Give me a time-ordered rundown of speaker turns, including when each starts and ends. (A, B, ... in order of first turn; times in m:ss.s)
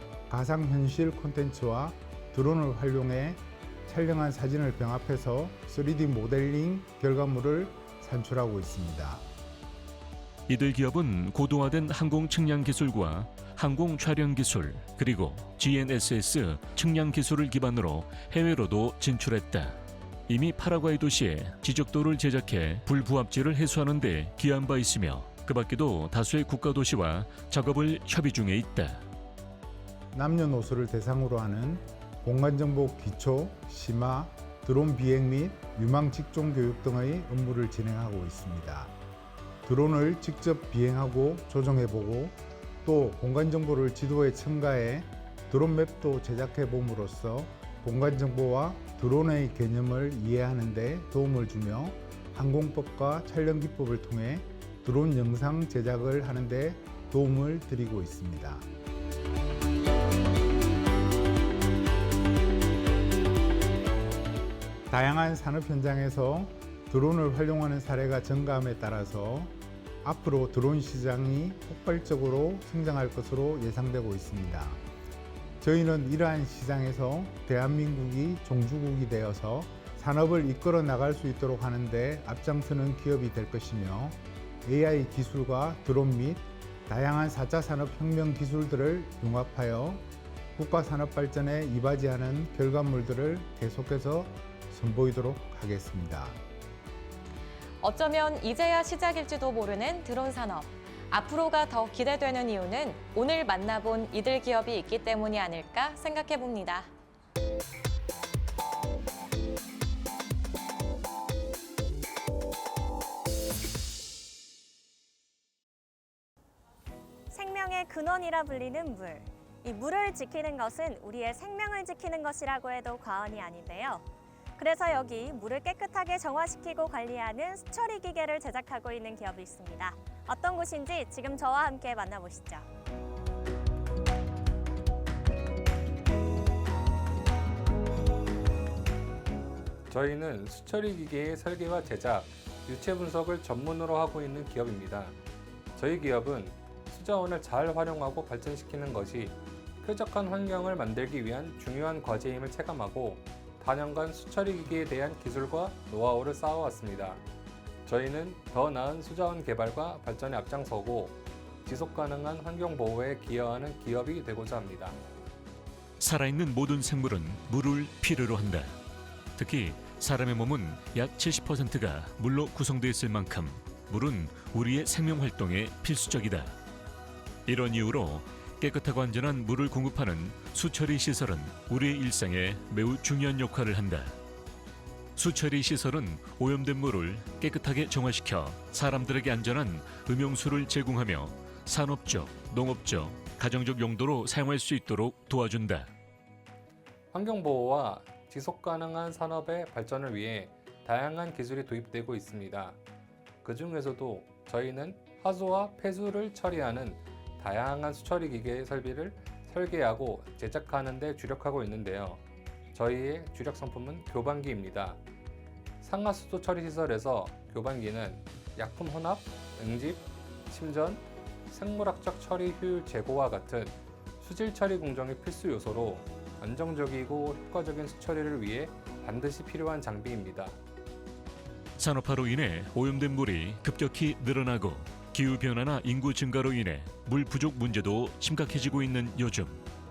0:00.3-0:09.3 A
0:10.5-0:29.0 B
0:30.1-0:38.9 A
0:39.6-0:58.7 A
1:04.9-1:14.8 A
1:15.6-1:36.4 A
1:37.8-1:46.9 C
1:57.3-2:04.0 D
2:04.6-2:12.7 D
2:19.9-2:25.2 E
2:25.8-2:37.2 E
2:37.9-2:45.0 E
2:46.0-2:48.8 B
2:49.4-2:56.6 B
2:57.5-3:04.2 B
3:05.2-3:15.9 B
3:17.1-3:22.8 E
3:23.4-3:32.2 E
3:32.7-3:35.0 E
3:35.8-3:50.6 E
3:51.8-3:59.6 B